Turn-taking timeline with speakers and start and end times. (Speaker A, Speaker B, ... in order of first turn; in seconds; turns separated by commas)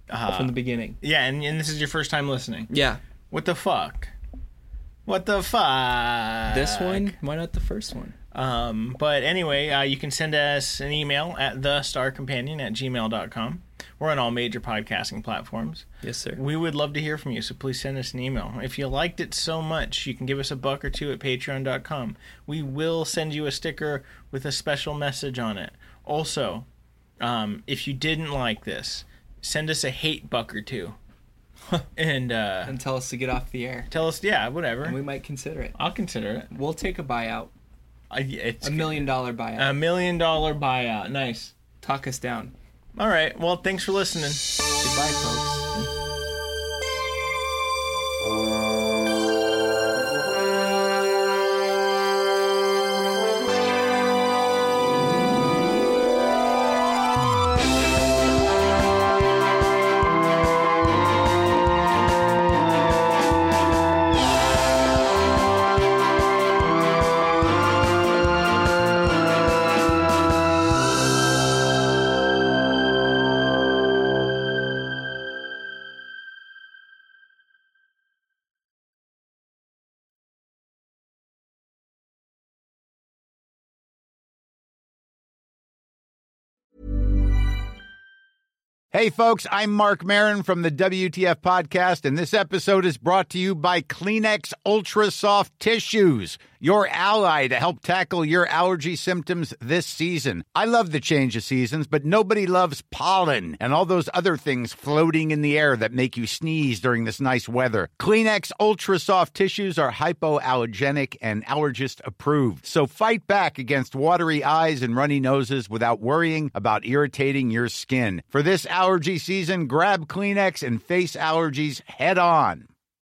Speaker A: 0.1-2.7, Speaker B: 0.3-1.0, Speaker B: 2.7-3.0, Speaker A: 3.3-4.1, Speaker A: 5.1-7.2, Speaker B: 6.5-8.2, Speaker A: 8.3-26.7, Speaker B: 16.0-16.4, Speaker A: 27.2-31.0, Speaker A: 32.0-32.8, Speaker B: 32.7-33.9, Speaker A: 33.9-35.0, Speaker B: 34.8-35.8, Speaker A: 35.8-36.5, Speaker B: 36.5-37.5, Speaker A: 38.1-41.5, Speaker B: 38.6-39.8, Speaker B: 41.8-42.5, Speaker A: 43.0-44.4, Speaker B: 44.8-45.9, Speaker C: 88.9-122.7